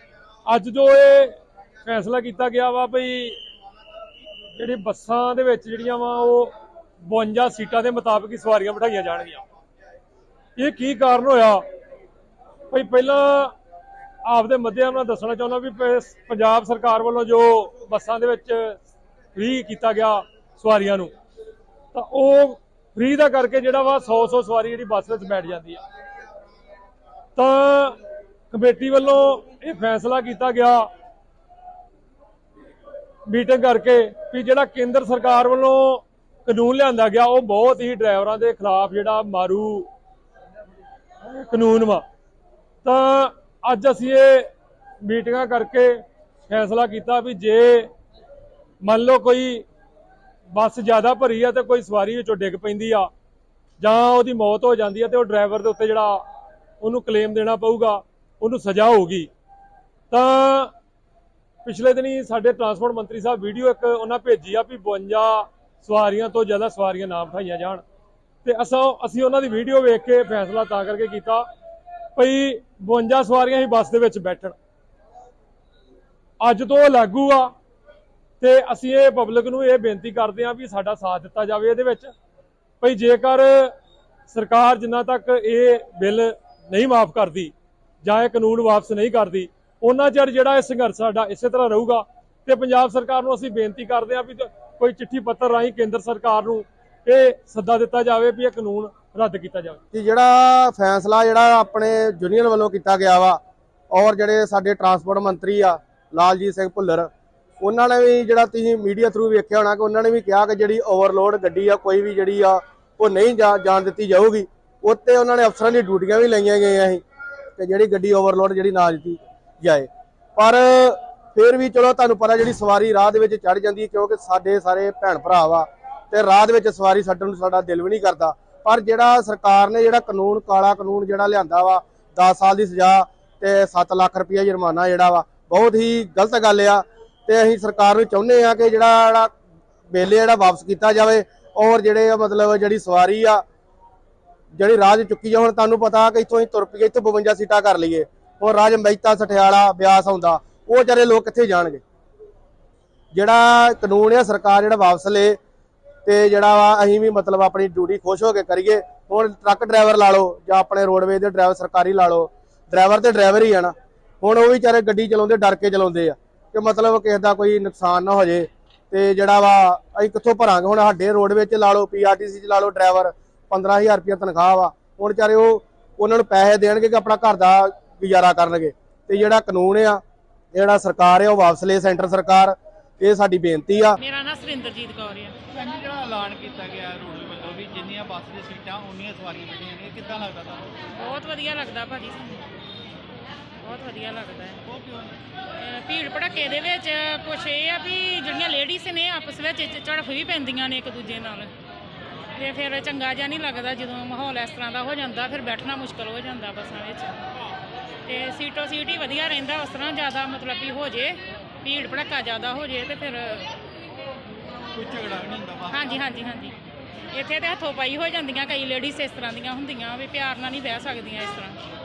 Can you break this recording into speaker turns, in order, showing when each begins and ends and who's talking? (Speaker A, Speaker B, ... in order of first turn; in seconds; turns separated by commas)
Speaker A: 0.5-3.4, Speaker A: 4.5-9.4, Speaker A: 10.6-11.6, Speaker A: 12.7-13.5, Speaker A: 14.2-18.8, Speaker A: 19.3-21.1, Speaker A: 21.9-25.8, Speaker A: 27.4-28.0, Speaker A: 28.5-30.9, Speaker A: 33.3-39.9, Speaker A: 41.2-42.0, Speaker A: 42.8-44.5, Speaker A: 45.0-47.9, Speaker A: 48.8-49.6, Speaker A: 50.5-53.1, Speaker A: 53.8-56.2, Speaker A: 56.8-59.3, Speaker A: 60.1-60.7, Speaker A: 61.6-67.8, Speaker A: 68.4-71.5, Speaker A: 72.2-74.5, Speaker A: 76.4-77.5, Speaker A: 78.4-82.1, Speaker A: 82.8-83.7, Speaker A: 84.3-99.8, Speaker B: 99.9-103.4, Speaker B: 103.9-117.0, Speaker B: 117.6-139.3, Speaker B: 139.9-143.4, Speaker B: 144.6-151.8, Speaker B: 153.1-155.4, Speaker B: 156.0-180.0, Speaker B: 180.5-184.0, Speaker C: 184.0-185.3, Speaker D: 185.5-190.7, Speaker C: 190.9-192.4, Speaker C: 193.6-194.6, Speaker D: 194.7-195.1, Speaker C: 195.6-201.5, Speaker C: 202.3-207.2, Speaker C: 208.1-213.5, Speaker D: 214.7-216.0, Speaker C: 215.7-216.6, Speaker C: 217.1-221.6